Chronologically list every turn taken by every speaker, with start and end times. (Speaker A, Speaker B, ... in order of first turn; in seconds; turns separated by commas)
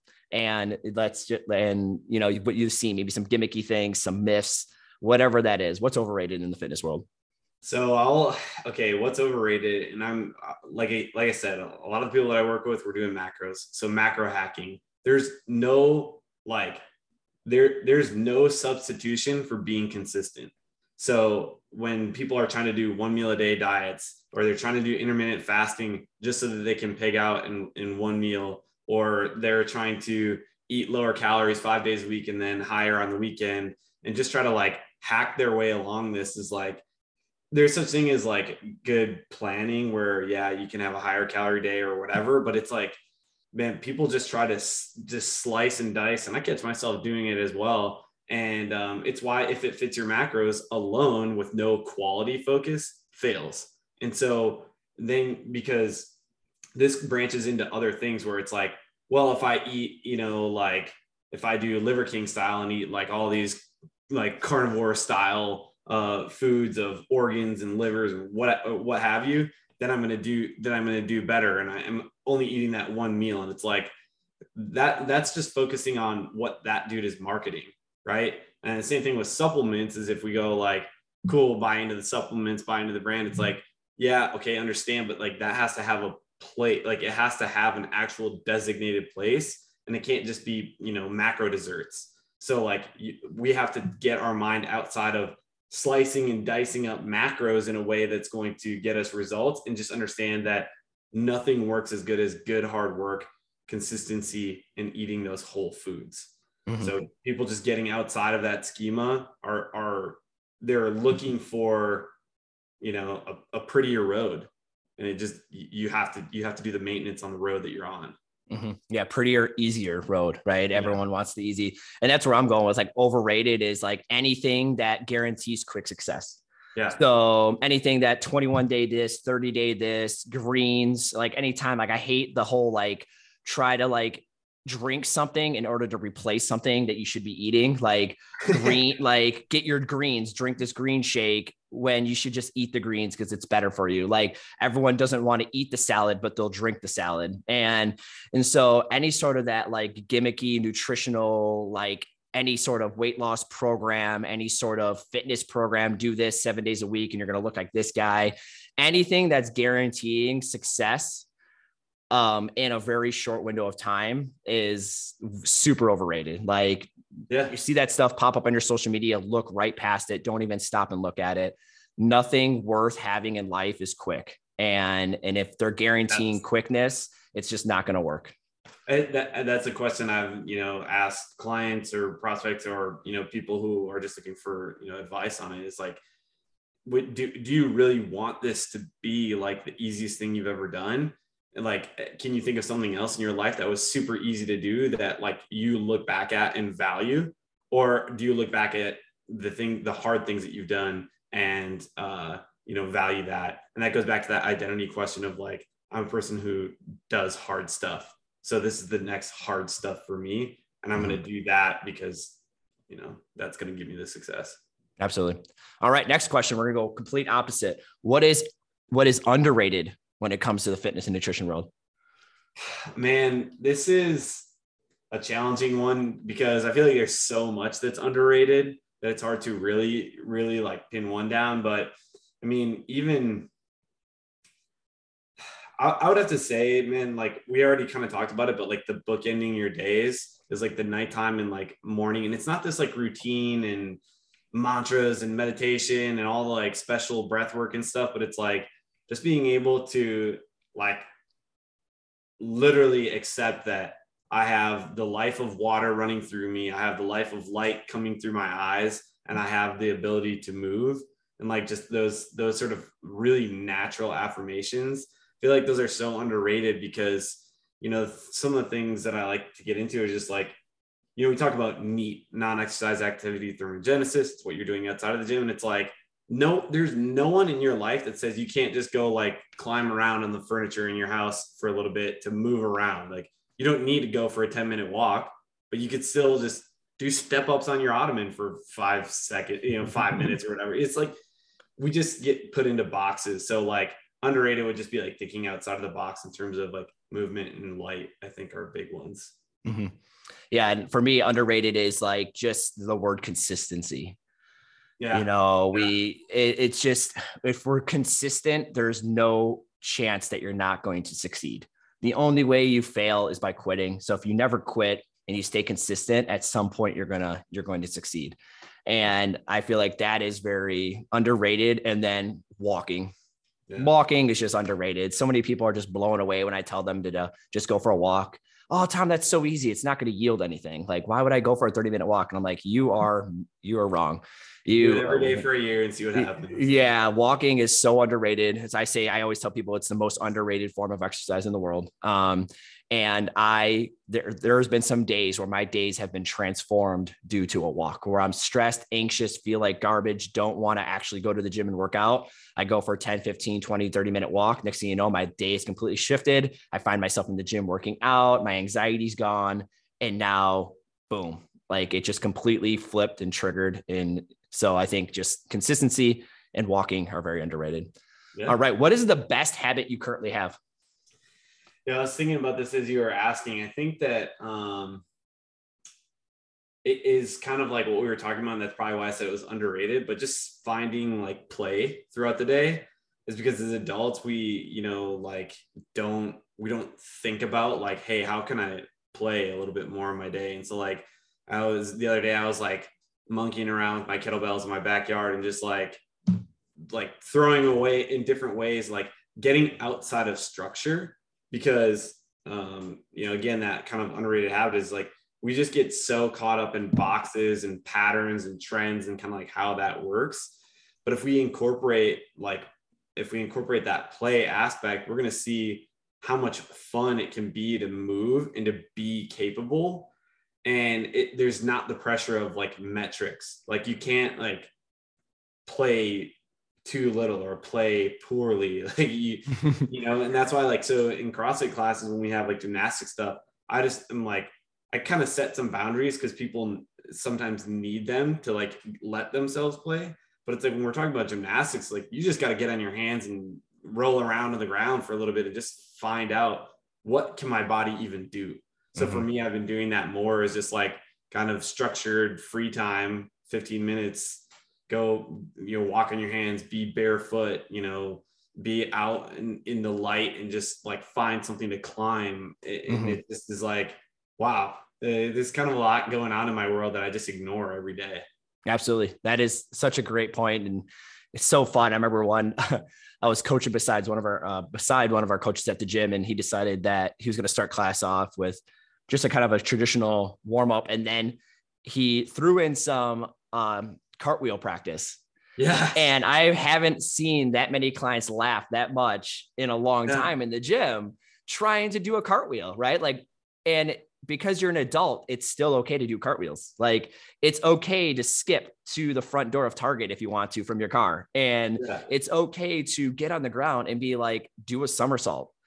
Speaker A: 0.3-7.1, Speaker B: 7.6-16.8, Speaker B: 17.5-36.8, Speaker B: 37.5-43.0, Speaker B: 43.5-56.1, Speaker B: 56.8-73.9, Speaker B: 74.6-112.1, Speaker A: 106.7-106.9, Speaker B: 112.8-118.2, Speaker A: 118.5-126.4, Speaker B: 120.7-121.0, Speaker A: 126.9-161.3, Speaker A: 162.1-166.9, Speaker A: 167.5-178.3, Speaker B: 176.1-176.3, Speaker B: 178.9-186.0, Speaker B: 186.9-212.4, Speaker B: 212.9-214.6, Speaker A: 215.0-221.7, Speaker B: 222.6-224.5, Speaker B: 225.1-233.5, Speaker B: 235.8-244.0, Speaker B: 244.5-251.1, Speaker B: 252.4-270.6, Speaker B: 271.2-291.1, Speaker B: 291.8-299.3, Speaker A: 299.6-299.9, Speaker A: 300.5-304.2, Speaker B: 305.0-305.9, Speaker A: 305.1-323.1, Speaker A: 323.8-335.4, Speaker B: 334.8-336.9, Speaker A: 336.2-367.9, Speaker A: 368.5-370.6, Speaker B: 371.9-375.0, Speaker B: 376.8-396.0, Speaker B: 396.9-420.1, Speaker B: 420.6-424.7, Speaker B: 425.7-468.2, Speaker A: 449.0-449.2, Speaker A: 462.9-463.2, Speaker A: 468.7-485.2, Speaker B: 485.6-486.1, Speaker A: 485.9-505.5, Speaker B: 501.8-502.1